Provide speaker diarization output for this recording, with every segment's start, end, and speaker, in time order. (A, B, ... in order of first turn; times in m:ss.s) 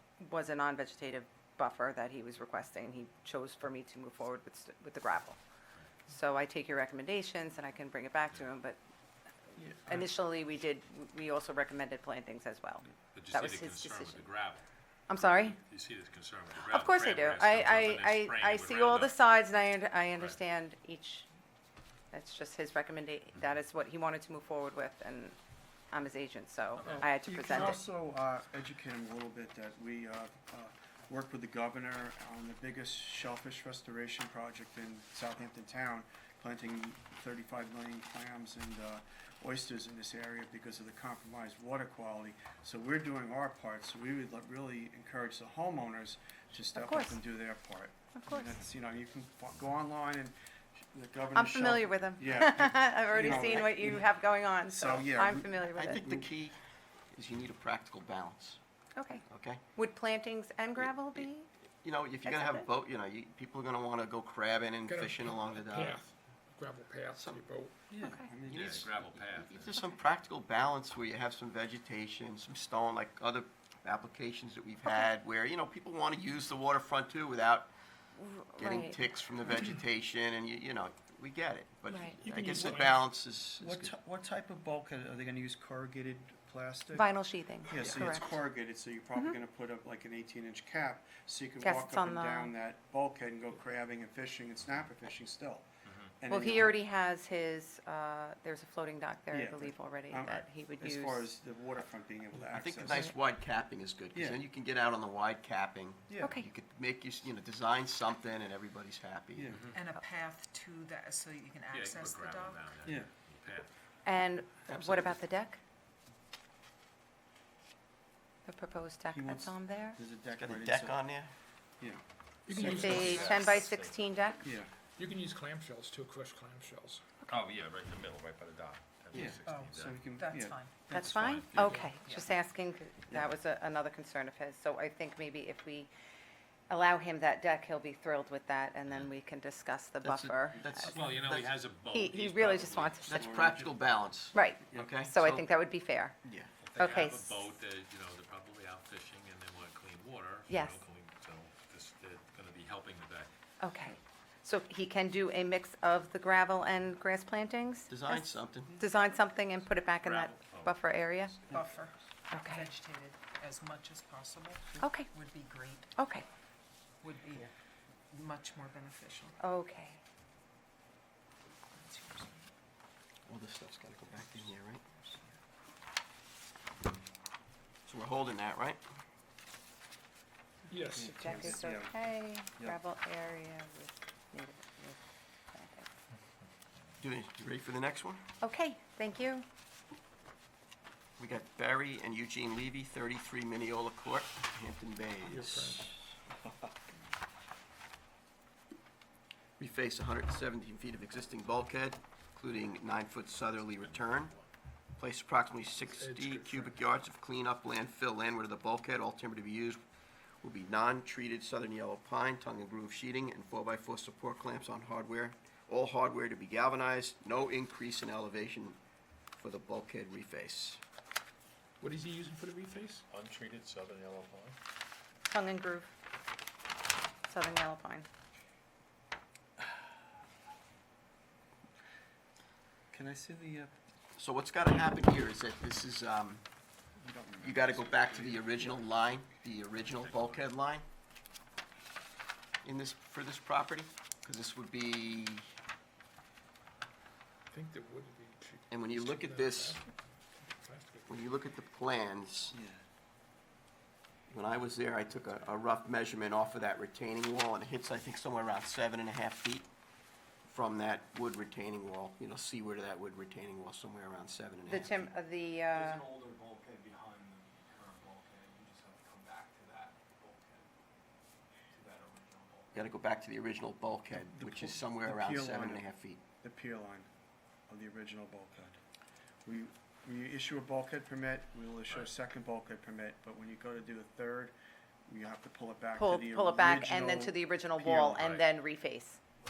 0:00.2-0:05.4 A
0:06.0-0:08.8 A
0:09.7-0:14.2 A
0:13.1-0:14.6 B
0:15.1-0:15.6 A
0:15.3-0:19.1 B
0:16.6-0:21.3 A
0:22.1-0:25.4 A
0:25.9-0:27.8 A
0:26.8-0:27.1 B
0:26.8-0:54.1 C
0:46.7-0:47.2 A
0:48.1-0:48.5 A
0:51.3-0:56.0 A
0:54.7-0:56.3 C
0:55.7-0:56.6 D
0:57.1-0:58.6 D
0:59.0-1:01.5 A
0:59.2-0:59.6 D
1:01.8-1:06.0 D
1:02.2-1:02.6 A
1:04.9-1:07.8 E
1:07.1-1:07.4 D
1:07.9-1:08.9 C
1:08.0-1:08.3 A
1:08.4-1:09.8 B
1:08.5-1:17.7 D
1:18.2-1:19.0 A
1:18.6-1:23.9 D
1:21.9-1:22.2 A
1:22.2-1:23.0 C
1:23.6-1:27.1 C
1:26.9-1:28.4 A
1:27.7-1:35.6 C
1:31.6-1:32.5 A
1:35.8-1:36.1 B
1:36.2-1:36.8 C
1:36.3-1:41.3 A
1:39.3-1:43.1 C
1:42.5-1:49.6 D
1:44.1-1:44.4 C
1:46.2-1:46.5 A
1:49.3-1:49.7 C
1:49.7-1:52.8 F
1:51.7-1:53.7 B
1:54.0-1:55.6 A
1:54.7-1:55.2 D
1:58.4-2:00.0 A
1:59.1-2:01.0 C
2:00.3-2:01.3 D
2:02.5-2:03.4 E
2:02.5-2:04.5 A
2:02.6-2:03.1 C
2:02.6-2:04.0 B
2:04.4-2:04.7 C
2:05.0-2:07.0 E
2:07.3-2:10.0 B
2:09.1-2:11.1 C
2:09.4-2:11.1 F
2:10.9-2:15.9 A
2:10.9-2:11.9 B
2:11.8-2:12.3 F
2:16.7-2:23.2 A
2:20.0-2:21.5 D
2:20.9-2:23.2 B
2:23.1-2:25.4 D
2:23.1-2:23.8 C
2:24.3-2:26.2 A
2:26.2-2:26.5 D
2:26.6-2:33.3 B
2:26.8-2:27.4 A
2:30.5-2:30.8 A
2:33.6-2:41.4 A
2:37.9-2:38.8 D
2:40.0-2:41.6 B
2:41.5-2:45.9 F
2:42.3-2:42.7 A
2:44.8-2:45.1 A
2:45.9-2:46.2 A
2:47.0-2:47.5 F
2:48.1-2:49.4 F
2:49.4-2:50.0 A
2:51.7-2:52.5 F
2:53.2-2:54.8 D
2:55.0-2:55.3 F
2:57.8-2:58.8 D
3:00.7-3:01.6 E
3:00.9-3:01.9 C
3:00.9-3:05.0 A
3:05.5-3:05.9 A
3:07.0-3:08.2 D
3:08.4-3:09.4 A
3:11.2-3:15.9 D
3:15.3-3:15.9 E
3:19.6-3:24.3 D
3:23.6-3:24.4 B
3:25.0-3:29.8 D
3:25.9-3:26.8 E
3:30.4-3:38.8 D
3:39.4-3:40.8 D
3:41.8-3:43.0 E
3:43.1-3:44.6 B
3:45.3-3:45.9 A
3:47.3-3:48.1 A
3:52.9-3:53.7 C
3:54.2-3:56.4 D
3:57.0-3:58.5 C
3:57.4-4:00.8 D
3:59.9-4:00.4 B
4:02.6-4:05.5 D
4:07.5-4:11.2 E
4:08.7-4:09.8 D
4:11.1-4:12.5 D
4:12.5-4:12.8 C
4:14.3-4:19.7 D
4:20.4-4:25.1 D
4:24.7-4:26.0 A
4:25.7-4:30.6 G
4:31.7-4:32.8 G
4:32.7-4:36.2 D
4:34.1-4:35.8 C
4:36.4-4:37.1 C
4:37.7-4:38.8 C
4:39.4-4:44.5 C
4:45.1-4:48.2 C
4:45.9-4:49.2 A
4:48.2-4:48.4 B